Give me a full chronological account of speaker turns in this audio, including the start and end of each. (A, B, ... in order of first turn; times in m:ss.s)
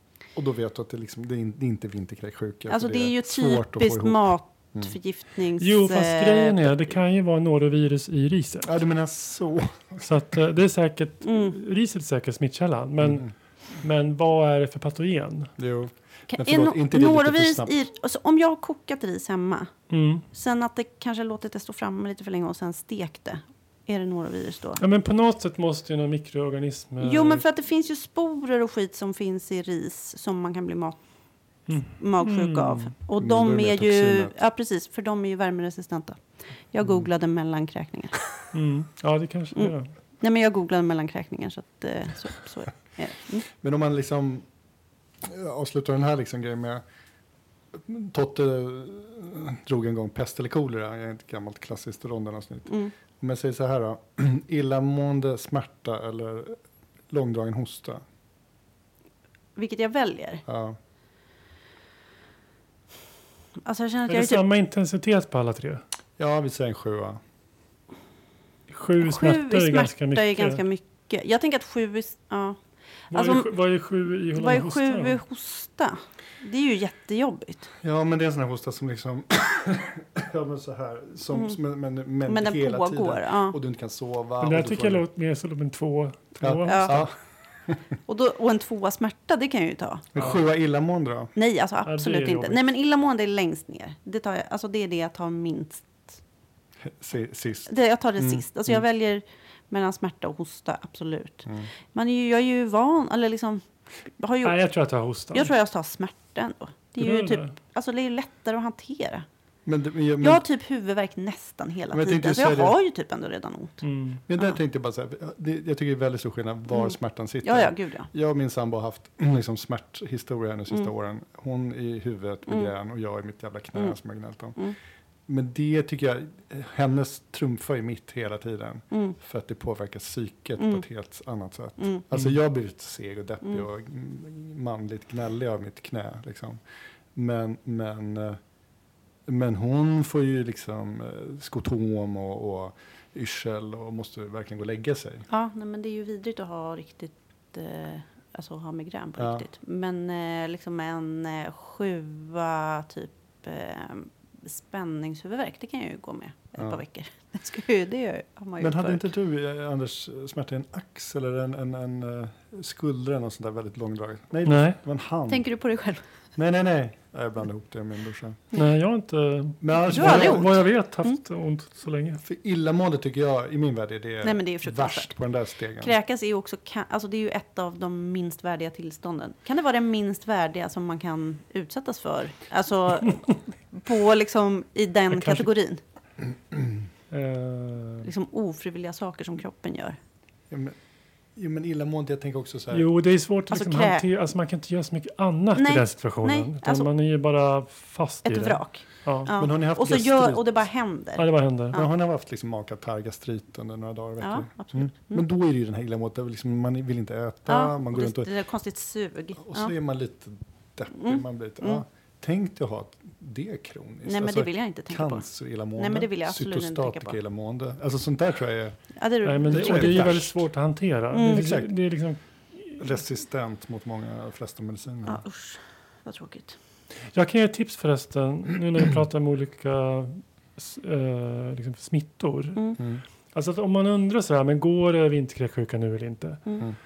0:00.3-0:04.9 A
0:02.7-0:07.0 B
0:05.6-0:08.7 C
0:08.6-0:10.1 A
0:10.0-0:15.5 C
0:11.2-0:11.6 B
0:13.0-0:13.3 A
0:15.6-0:17.7 A
0:16.3-0:19.7 B
0:19.9-0:20.2 C
0:20.3-0:24.8 B
0:24.8-0:27.4 C
0:27.0-0:31.0 B
0:31.7-0:32.9 C
0:31.9-0:38.2 B
0:33.2-0:34.3 A
0:38.5-0:39.9 C
0:39.5-0:43.4 B
0:43.5-0:44.4 A
0:45.2-0:46.8 A
0:47.7-0:56.6 A
0:52.7-0:52.9 B
0:57.1-0:58.0 A
0:59.6-1:00.4 B
1:00.4-1:00.8 A
1:03.6-1:04.4 B
1:04.1-1:05.8 C
1:06.2-1:07.2 A
1:08.7-1:10.6 C
1:09.0-1:12.6 B
1:13.1-1:13.5 B
1:13.1-1:15.2 C
1:14.3-1:17.7 B
1:17.8-1:25.0 A
1:21.3-1:21.6 B
1:22.2-1:23.6 B
1:24.4-1:27.1 C
1:26.4-1:27.1 A
1:26.6-1:27.0 B
1:28.1-1:30.0 B
1:30.1-1:31.3 A
1:31.4-1:36.2 B
1:31.8-1:32.6 C
1:36.8-1:38.8 A
1:37.7-1:44.6 B
1:44.4-1:45.5 C
1:45.3-1:49.2 B
1:47.0-1:47.5 C
1:49.6-1:50.4 A
1:50.2-1:53.8 B
1:51.9-1:52.8 A
1:53.8-1:54.2 C
1:54.3-2:04.6 A
1:56.7-1:58.1 B
2:05.3-2:16.6 A
2:10.6-2:10.8 B
2:11.8-2:12.0 B
2:17.1-2:18.4 A
2:19.3-2:25.3 A
2:25.3-2:39.1 B
2:29.2-2:29.4 A
2:38.6-2:45.4 A
2:44.4-2:44.8 C
2:45.3-2:46.0 B
2:46.4-2:48.4 A
2:48.5-2:52.2 C
2:49.6-2:50.6 A
2:49.9-2:51.2 B
2:52.2-2:55.9 A
2:54.2-2:55.1 B
2:55.8-3:05.8 B
3:05.1-3:05.5 C
3:07.1-3:08.1 C
3:08.0-3:10.0 B
3:10.5-3:10.8 A
3:11.4-3:12.9 A
3:12.7-3:19.3 C
3:13.5-3:14.0 B
3:15.5-3:16.9 B
3:18.2-3:21.9 B
3:19.3-3:20.5 A
3:21.2-3:21.8 C
3:21.7-3:28.3 A
3:24.2-3:25.2 B
3:27.5-3:29.7 B
3:29.4-3:38.8 A
3:30.9-3:31.8 B
3:34.0-3:37.2 B
3:39.0-3:40.1 B
3:39.2-3:42.9 C
3:39.5-3:40.4 A
3:41.1-3:41.4 B
3:41.3-3:41.7 A
3:42.8-3:45.2 A
3:45.0-3:46.6 B
3:47.1-3:52.7 C
3:53.3-3:56.5 C